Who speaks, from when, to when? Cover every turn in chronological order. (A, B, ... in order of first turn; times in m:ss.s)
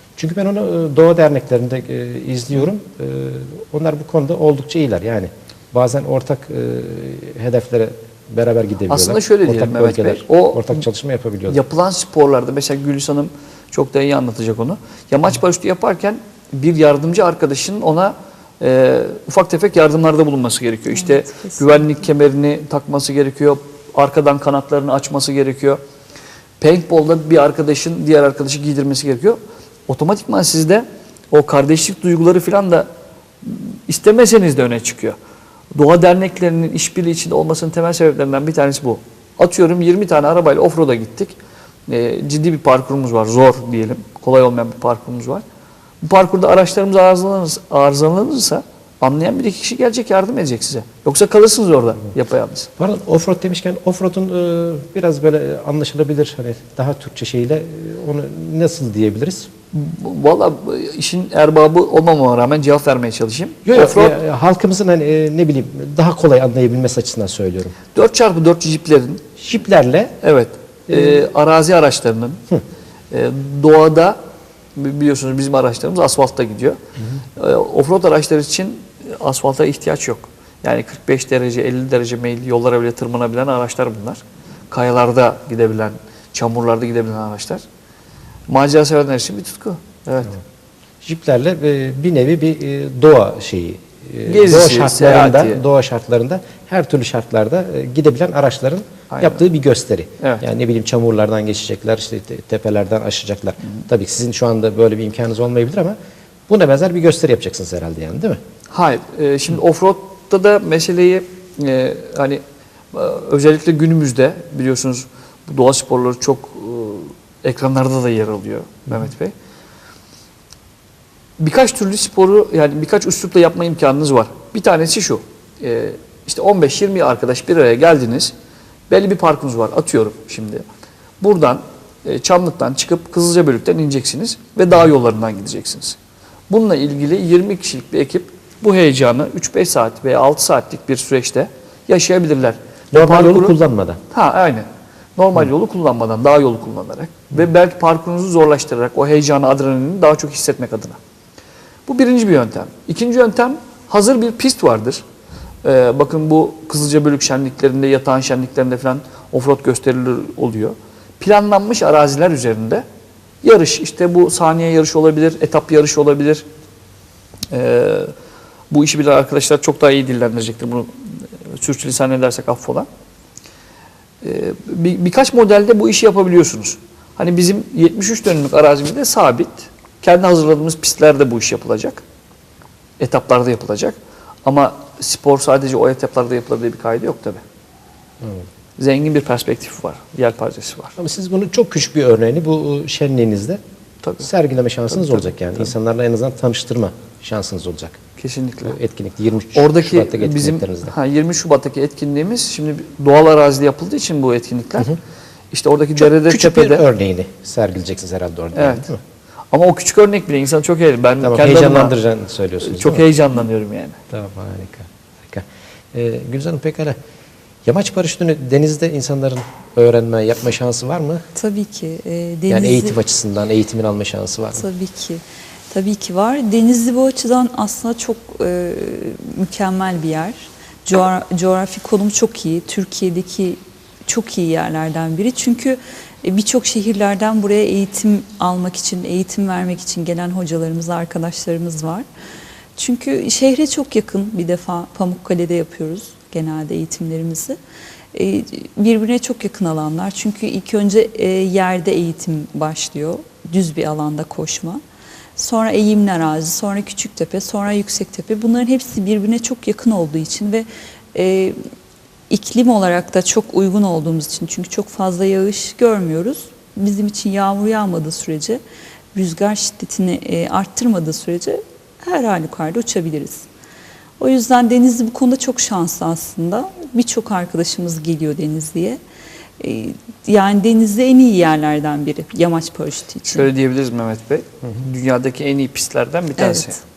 0:00.2-0:11.6 A
0:08.9-0:10.8 B
0:11.5-0:25.8 B
0:20.9-0:21.9 C
0:26.6-0:32.9 B
0:33.4-0:35.2 B
0:35.8-0:45.4 B
0:46.0-0:52.7 B
0:52.8-0:59.5 A
0:59.7-1:04.2 B
1:03.6-1:07.8 A
1:07.9-1:09.2 B
1:09.4-1:10.2 A
1:10.2-1:12.4 B
1:10.9-1:11.3 A
1:13.1-1:14.2 B
1:14.8-1:16.8 B
1:17.4-1:27.6 B
1:28.5-1:30.4 B
1:31.0-1:46.0 A
1:34.3-1:35.6 B
1:39.1-1:39.4 B
1:46.5-1:48.4 A
1:48.7-1:52.4 B
1:52.9-1:59.3 B
2:01.4-2:08.3 B
2:08.9-2:10.6 B
2:11.2-2:16.0 B
2:16.5-2:23.6 B
2:22.9-2:24.0 A
2:24.1-2:24.7 B
2:25.2-2:31.0 B
2:31.9-2:35.0 B
2:35.6-2:42.8 B
2:43.4-2:46.4 B
2:47.5-2:48.1 B
2:48.7-2:52.9 B
2:54.2-3:02.0 B
3:03.0-3:07.4 B
3:08.2-3:08.5 A
3:08.8-3:11.0 B
3:11.0-3:13.6 A
3:14.0-3:14.3 B
3:14.2-3:18.0 A
3:14.9-3:15.6 B
3:18.2-3:18.8 B
3:18.6-3:21.0 A
3:19.5-3:25.0 B
3:25.5-3:26.8 B
3:26.0-3:29.0 A
3:28.6-3:28.9 B
3:29.5-3:31.9 B
3:31.2-3:33.1 A
3:32.7-3:34.0 B
3:34.1-3:37.0 A
3:37.6-3:41.2 A
3:41.4-3:43.0 C
3:42.5-3:44.7 A
3:44.5-4:02.1 C
4:02.8-4:07.6 C
4:08.1-4:14.8 C
4:15.4-4:21.6 C
4:22.3-4:28.6 C
4:29.1-4:33.5 C
4:34.2-4:39.0 C
4:39.6-4:43.5 C
4:43.3-4:46.8 B
4:46.4-4:46.8 C